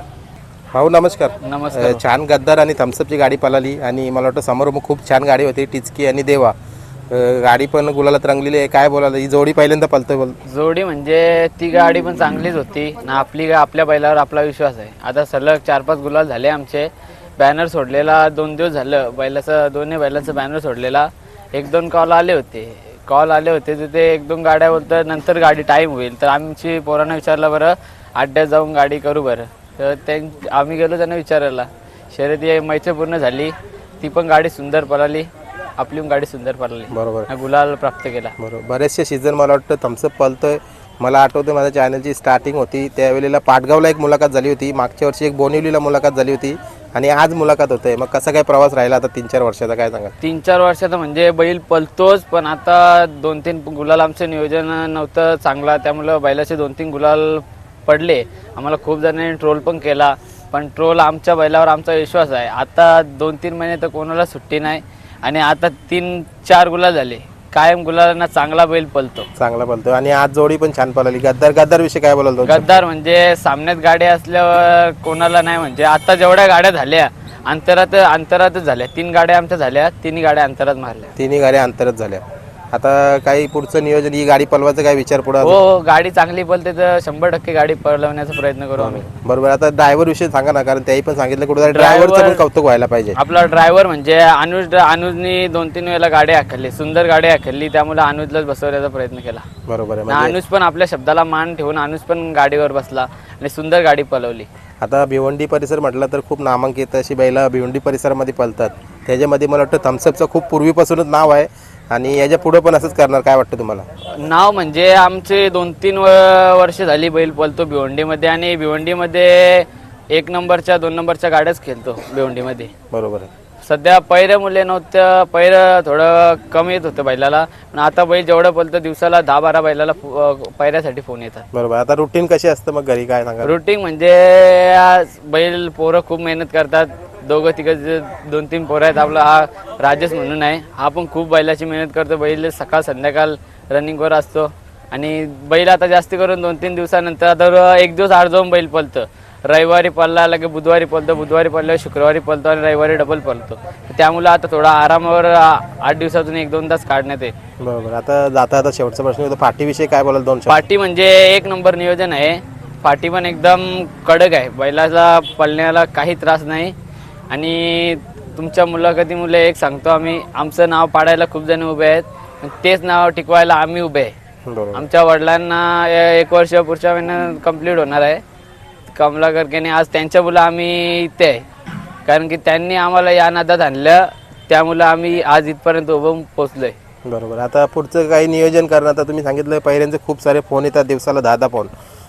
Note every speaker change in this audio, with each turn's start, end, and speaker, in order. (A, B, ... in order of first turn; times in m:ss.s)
0:00.7-0:06.5 A
0:01.4-0:02.0 B
0:07.1-0:10.4 A
0:10.5-0:38.3 B
0:36.9-0:37.3 A
0:38.4-0:50.1 A
0:50.2-1:09.3 B
1:09.4-1:12.7 A
1:12.4-1:21.1 B
1:21.2-1:22.2 A
1:22.7-1:25.6 A
1:25.4-1:29.0 B
1:28.8-1:33.2 A
1:31.6-1:32.4 B
1:33.2-1:39.4 B
1:39.7-1:40.4 A
1:40.1-1:44.5 B
1:44.8-1:53.8 A
1:54.2-2:02.7 B
2:02.9-2:03.3 A
2:03.6-2:11.4 B
2:11.5-2:13.5 A
2:13.4-2:37.3 B
2:37.6-2:40.6 A
2:40.5-2:46.7 B
2:47.3-2:54.1 B
2:54.5-2:54.8 A
2:54.7-2:58.2 B
2:58.9-3:01.4 B
3:02.0-3:06.8 B
3:07.0-3:11.7 A